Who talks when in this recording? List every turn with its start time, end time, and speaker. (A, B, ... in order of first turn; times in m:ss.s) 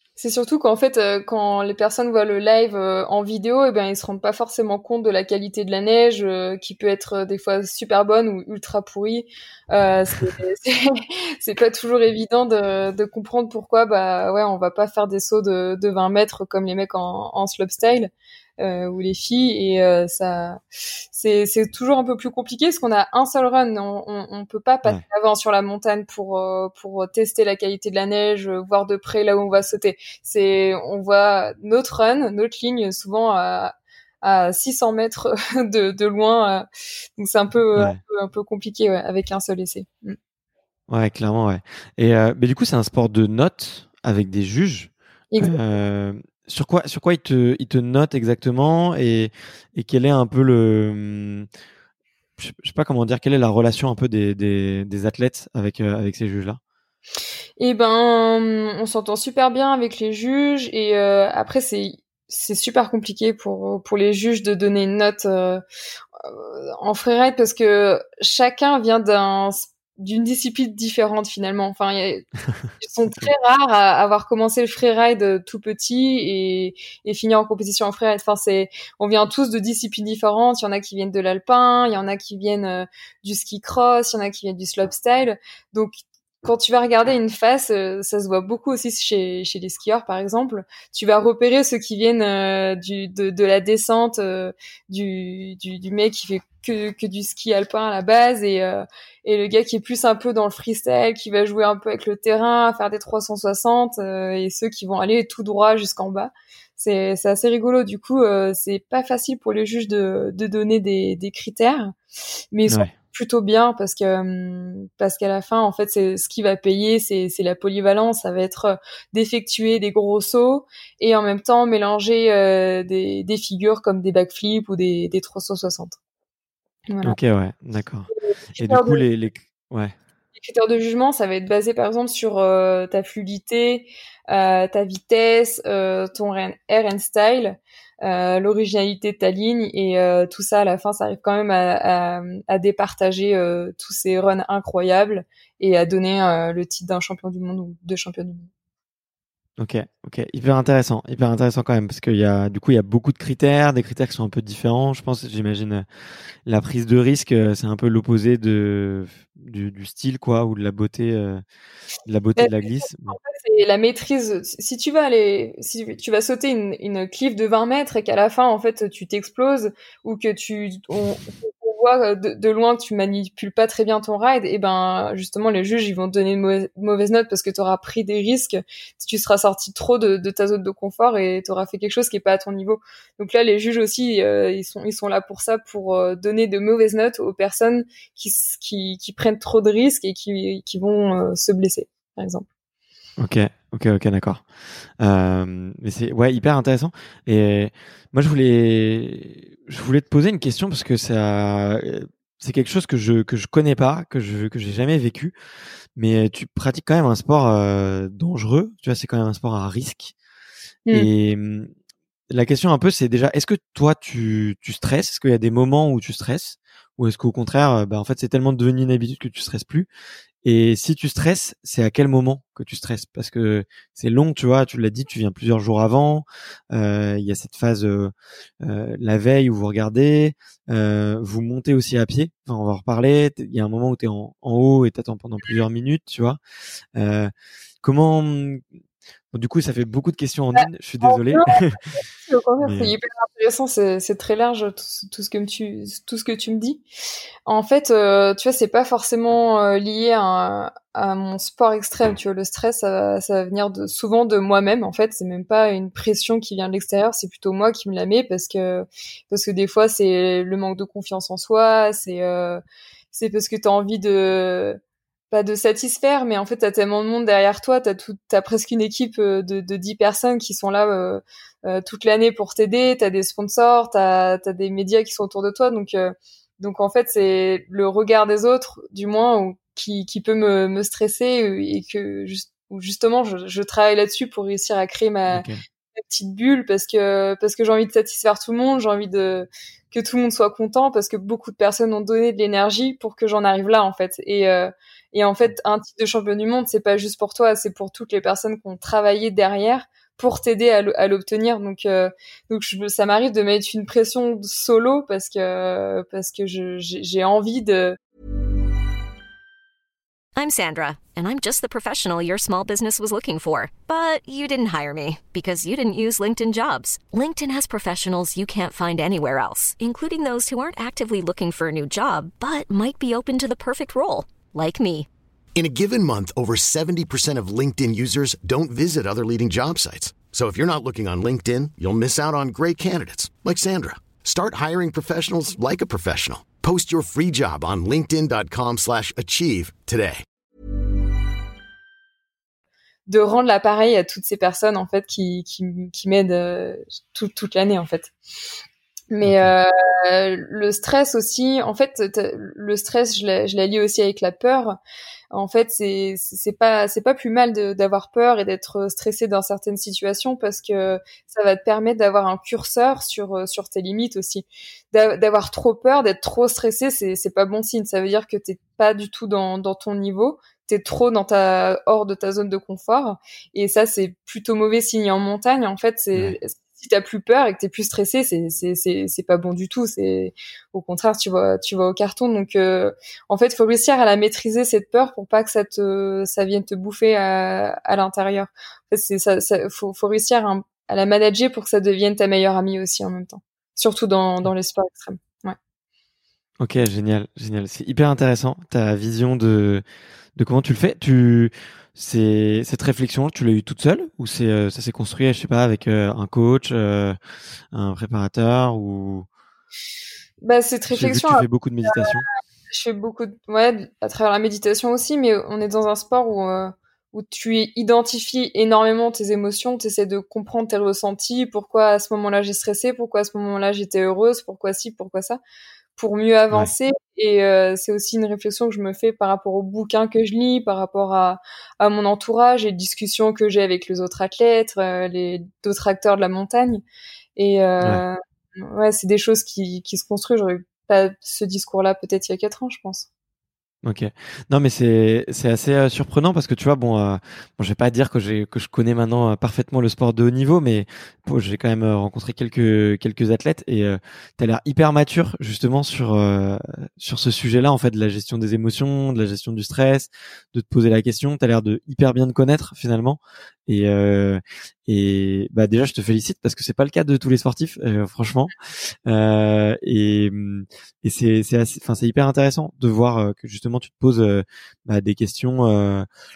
0:00.2-0:20.6 A
0:21.1-0:36.7 A
0:37.2-0:40.2 A
0:40.9-0:51.5 B
0:52.4-0:56.6 B
0:57.6-1:05.6 A
1:06.2-1:12.3 A
1:12.8-1:51.9 A
1:52.5-2:06.0 A
2:06.9-2:07.2 A
2:07.0-2:10.0 B
2:08.1-2:09.0 A
2:10.4-2:28.5 A
2:29.6-2:35.9 B
2:36.5-2:41.4 B
2:42.1-2:43.2 B
2:42.4-3:12.5 A
3:13.2-3:14.4 B
3:15.0-3:25.4 B
3:26.0-3:30.1 B
3:30.9-3:31.7 B
3:32.3-3:39.9 B
3:40.4-3:56.4 B
3:57.0-3:57.3 B
3:57.8-3:58.6 B
3:59.3-4:01.8 B
4:00.6-4:06.8 A
4:02.6-4:02.9 B
4:07.5-4:24.8 A
4:25.3-5:08.0 A
4:45.3-4:45.6 B
5:10.4-5:25.1 C
5:25.6-5:40.2 D
5:43.1-5:48.1 A
5:49.1-5:54.8 A
5:49.2-5:49.5 B
5:55.3-6:35.6 A
6:36.6-6:39.8 B
6:40.4-6:47.2 B
6:47.7-6:49.3 B
6:50.4-6:52.1 A
6:50.9-6:52.2 B
6:52.7-7:05.4 A
7:06.0-7:16.8 A
7:17.4-7:23.1 A
7:23.8-7:48.5 B
7:49.1-7:56.1 B